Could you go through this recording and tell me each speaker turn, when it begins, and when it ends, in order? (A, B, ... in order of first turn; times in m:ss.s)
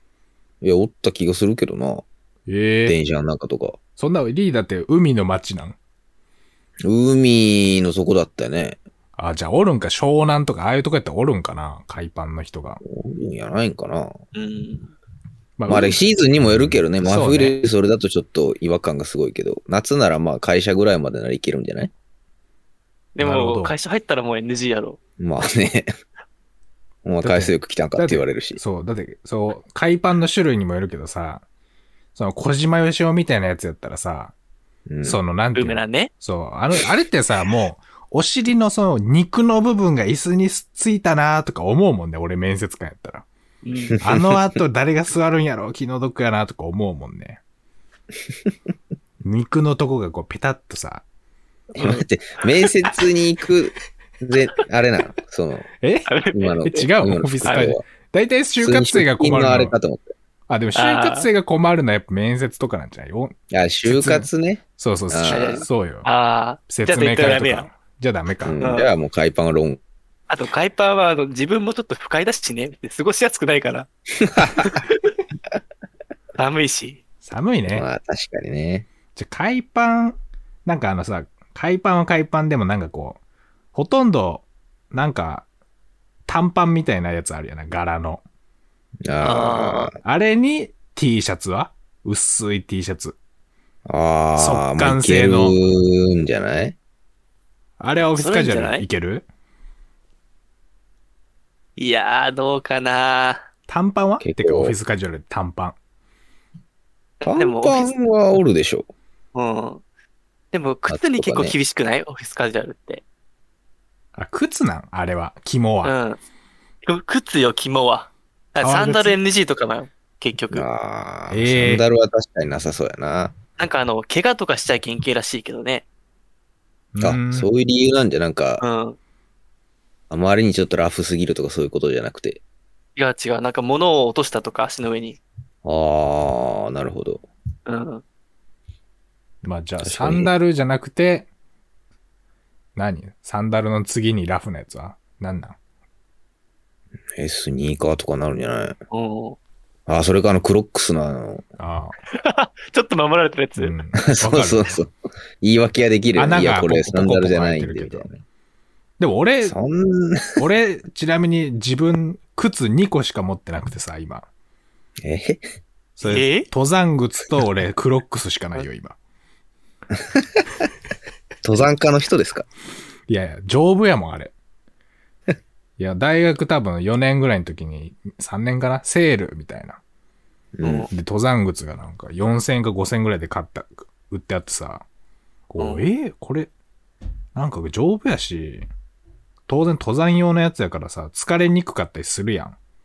0:00.6-0:02.1 A
0:02.5-0:03.0 B
0:02.9-0:03.8 A
0:04.0-0:05.8 B
0:06.8-0:08.8 A
0:09.2-0:12.8 B
0:12.8-0:14.2 A
0:14.4-0:14.9 C
0:15.6-0:17.6 B
0:15.7-0:21.9 A
0:23.2-0:25.0 C
0:23.2-0:23.8 B
0:25.2-0:25.9 A
0:27.0-0:28.6 A
0:27.2-0:31.4 B
0:32.2-0:34.3 B
0:34.9-0:35.2 A
0:35.0-0:43.3 B
0:35.6-0:36.1 C
0:43.6-0:44.0 C
0:43.9-0:44.4 A
0:44.0-0:47.4 B
0:49.2-0:51.0 B
0:51.8-0:55.7 A
0:51.8-0:52.0 C
0:55.8-0:56.1 B
0:56.1-0:56.9 C
0:56.3-0:57.8 A
0:56.7-0:59.8 B
0:57.4-0:57.7 C
0:58.6-1:00.1 A
1:00.5-1:06.1 B
1:00.8-1:01.3 C
1:03.5-1:05.7 A
1:05.3-1:07.7 C
1:06.7-1:08.7 B
1:08.4-1:09.8 A
1:08.6-1:08.9 C
1:10.3-1:13.9 C
1:14.2-1:14.8 A
1:14.6-1:15.1 C
1:16.4-1:17.0 C
1:17.2-1:17.9 B
1:17.7-1:18.9 A
1:19.2-1:23.2 B
1:23.7-1:25.5 B
1:26.3-1:28.2 B
1:29.1-1:30.0 A
1:29.2-1:29.9 C
1:30.0-1:33.2 B
1:33.9-1:36.8 A
1:34.4-1:35.6 B
1:37.8-1:39.3 B
1:38.2-1:38.9 C
1:41.8-1:43.4 C
1:43.7-1:45.8 B
1:44.2-1:44.8 A
1:47.2-1:47.9 C
1:47.3-1:48.9 A
1:49.4-1:49.8 C
1:50.5-1:53.0 C
1:50.9-1:51.6 A
1:54.2-1:55.9 B
1:55.8-1:56.2 C
1:56.8-2:00.7 C
1:58.6-1:59.2 B
2:00.5-2:03.4 A
2:01.3-2:01.9 B
2:03.6-2:05.8 C
2:06.9-2:07.5 B
2:07.0-2:08.6 A
2:08.6-2:09.0 C
2:10.1-2:12.4 A
2:13.0-2:15.2 C
2:15.6-2:17.2 A
2:17.7-2:18.0 C
2:19.4-2:21.3 B
2:19.8-2:20.3 A
2:22.8-2:25.6 B
2:27.2-2:28.8 A
2:28.9-2:29.4 C
2:29.9-2:31.4 A
2:31.6-2:31.9 B
2:32.1-2:33.8 C
2:33.6-2:34.8 B
2:34.1-2:38.2 A
2:36.2-2:38.1 B
2:39.0-2:39.6 B
2:39.4-2:40.4 A
2:40.4-2:44.3 B
2:45.0-2:45.4 A
2:46.0-2:49.0 B
2:46.0-2:46.5 C
2:51.4-2:52.5 A
2:53.1-2:54.3 B
2:55.8-2:59.8 B
3:00.6-3:00.9 A
3:00.6-3:00.9 C
3:00.9-3:04.8 B
3:05.5-3:06.5 B
3:05.6-3:05.8 C
3:07.4-3:08.7 B
3:09.5-3:12.6 B